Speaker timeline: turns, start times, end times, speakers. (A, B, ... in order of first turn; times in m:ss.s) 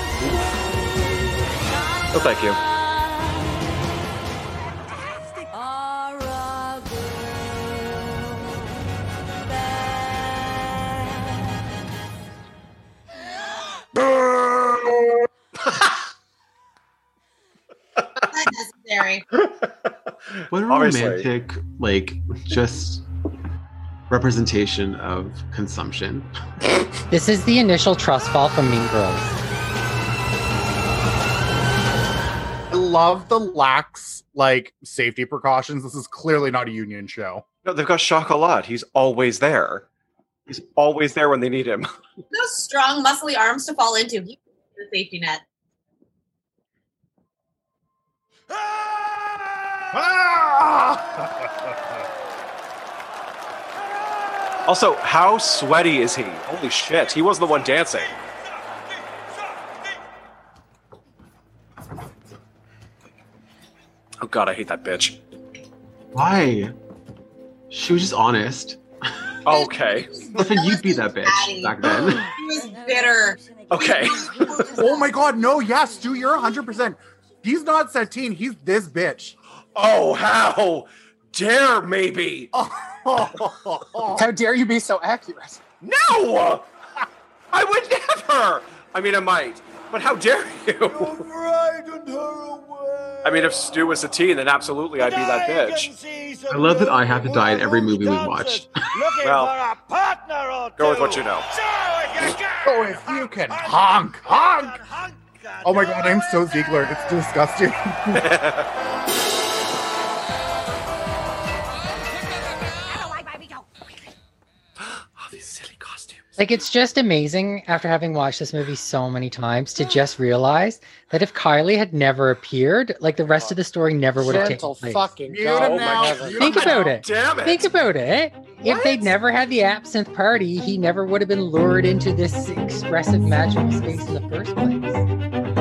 0:02.1-0:02.6 A
0:18.2-0:19.3 B
0:19.4-0:19.9 A
0:20.5-0:23.0 C
0:20.7-0:21.3 A
0:24.1-0:26.3 C
0:27.1-0:29.4 D
0:32.7-0:37.4 E
0:37.6-0:39.9 A
0:40.5-0:41.9 A
0:42.3-0:45.4 B
0:49.9-0:51.1 E
0:54.7-0:58.2 A
1:04.2-1:05.2 A
1:06.2-1:06.7 C
1:07.7-1:08.8 C
1:09.5-1:10.3 A
1:09.5-1:13.4 B
1:10.4-1:12.3 C
1:13.7-1:14.4 A
1:14.3-1:14.8 B
1:14.7-1:19.4 E
1:19.8-1:22.5 A
1:22.5-1:24.2 E
1:24.2-1:25.6 F
1:25.8-1:26.7 A
1:27.5-1:31.3 A
1:33.2-1:35.9 A
1:36.5-1:38.7 C
1:39.2-1:39.6 A
1:40.8-1:41.5 A
1:42.2-1:44.8 E
1:45.6-1:48.4 E
1:48.2-1:48.7 A
1:54.9-1:56.2 A
1:56.4-2:05.1 D
2:04.2-2:06.4 F
2:05.3-2:06.9 E
2:05.5-2:07.7 A
2:06.4-2:15.0 D
2:08.6-2:09.1 A